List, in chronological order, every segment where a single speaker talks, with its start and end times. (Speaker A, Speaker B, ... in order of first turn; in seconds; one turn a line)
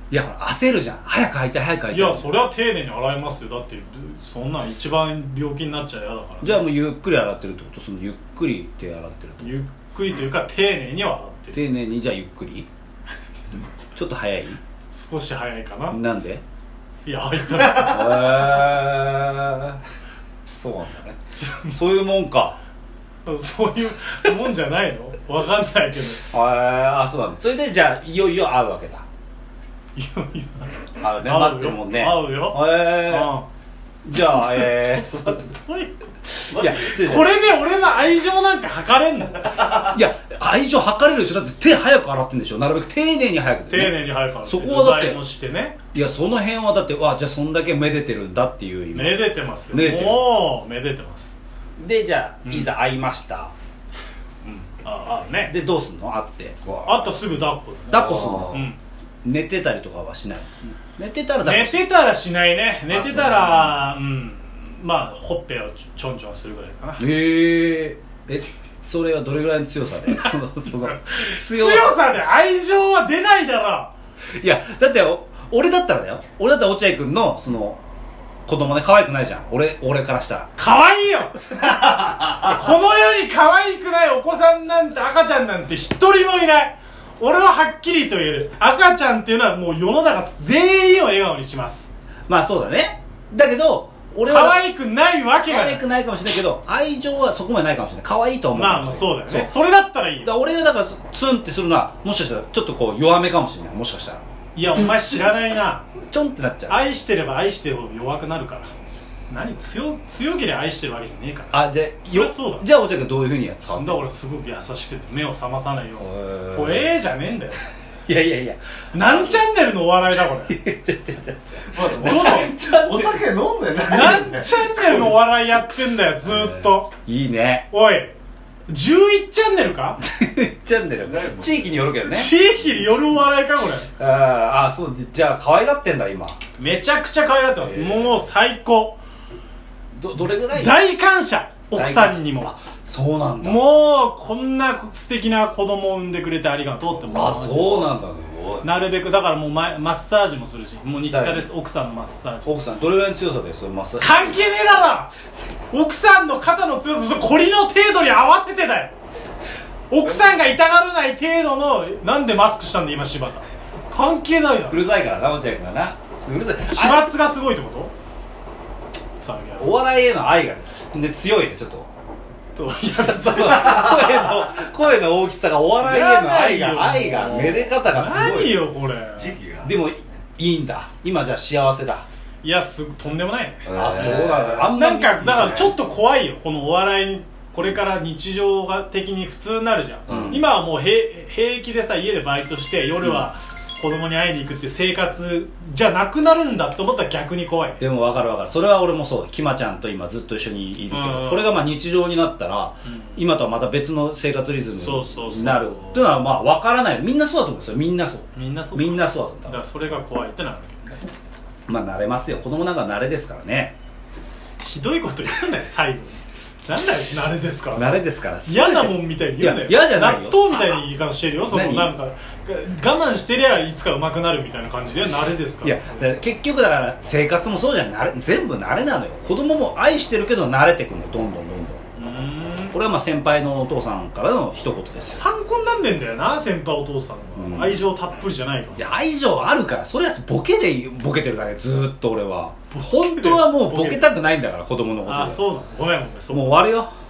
Speaker A: 0.1-2.3
Speaker B: 1.9-6.7
Speaker A: 6.4-9.5
Speaker B: 9.4-11.6
Speaker A: 11.5-12.7
Speaker A: 13.9-14.6
Speaker B: 14.9-16.0
Speaker A: 15.9-16.4
Speaker B: 17.1-18.2
Speaker A: 17.7-19.8
Speaker A: 20.5-22.6
Speaker B: 21.4-21.8
Speaker B: 23.2-26.2
Speaker A: 26.3-29.1
Speaker B: 30.0-33.5
Speaker A: 31.0-33.3
Speaker A: 34.0-35.5
Speaker B: 34.4-39.7
Speaker A: 36.3-37.3
Speaker C: 36.5-36.8
Speaker A: 39.6-45.2
Speaker B: 43.7-45.8
Speaker A: 45.9-50.4
Speaker B: 48.9-51.4
Speaker A: 51.8-53.5
Speaker B: 52.5-52.7
Speaker B: 54.4-55.5
Speaker A: 55.5-56.6
Speaker C: 56.7-57.0
Speaker B: 56.9-58.8
Speaker A: 57.9-58.7
Speaker C: 58.0-58.6
Speaker A: 59.2-61.8
Speaker B: 61.4-67.1
Speaker A: 62.9-63.8
Speaker A: 67.0-72.0
Speaker B: 70.8-73.9
Speaker A: 74.3-77.8
Speaker A: 78.5-80.5
Speaker B: 80.6-91.9
Speaker A: 92.3-94.6
Speaker B: 94.3-95.8
Speaker A: 95.5-99.5
Speaker B: 98.5-100.3
Speaker A: 100.2-104.2
Speaker B: 104.5-105.9
Speaker A: 106.1-106.8
Speaker B: 106.7-108.7
Speaker B: 109.3-112.7
Speaker A: 111.5-114.1
Speaker B: 113.8-117.6
Speaker A: 116.0-116.9
Speaker A: 118.1-119.4
Speaker B: 118.9-120.6
Speaker A: 120.5-123.3
Speaker C: 121.7-124.8
Speaker B: 121.8-122.5
Speaker B: 123.8-126.9
Speaker A: 124.8-125.7
Speaker A: 126.2-127.7
Speaker B: 127.7-128.2
Speaker B: 128.7-130.0
Speaker A: 130.0-132.3
Speaker C: 131.1-131.6
Speaker B: 132.1-133.9
Speaker A: 134.0-136.4
Speaker B: 136.6-139.0
Speaker A: 137.6-138.2
Speaker A: 139.9-140.8
Speaker B: 140.5-142.5
Speaker A: 141.7-143.7
Speaker B: 143.4-148.0
Speaker A: 147.1-148.6
Speaker B: 148.6-152.5
Speaker A: 151.1-151.5
Speaker A: 152.4-154.4
Speaker B: 154.0-155.1
Speaker B: 155.7-158.9
Speaker B: 159.9-164.8
Speaker A: 164.7-167.1
Speaker B: 166.7-167.9
Speaker B: 169.2-169.8
Speaker A: 169.6-171.9
Speaker B: 172.6-174.2
Speaker A: 172.8-178.6
Speaker B: 175.8-179.4
Speaker C: 179.2-179.7
Speaker A: 179.6-182.1
Speaker B: 182.4-183.7
Speaker C: 183.7-184.7
Speaker A: 183.7-185.8
Speaker B: 184.7-197.8
Speaker A: 190.1-190.4
Speaker A: 197.8-209.6
Speaker B: 200.9-201.5
Speaker B: 202.9-203.2
Speaker B: 204.7-206.1
Speaker B: 208.3-211.1
Speaker A: 211.7-213.7
Speaker B: 214.6-226.1
Speaker A: 217.8-220.8
Speaker A: 221.5-221.9
Speaker A: 225.6-231.8
Speaker B: 232.0-232.8
Speaker A: 232.7-235.2
Speaker B: 235.1-238.9
Speaker A: 237.4-237.8
Speaker A: 238.8-245.4
Speaker B: 242.7-244.0
Speaker B: 245.1-246.6
Speaker A: 246.3-246.9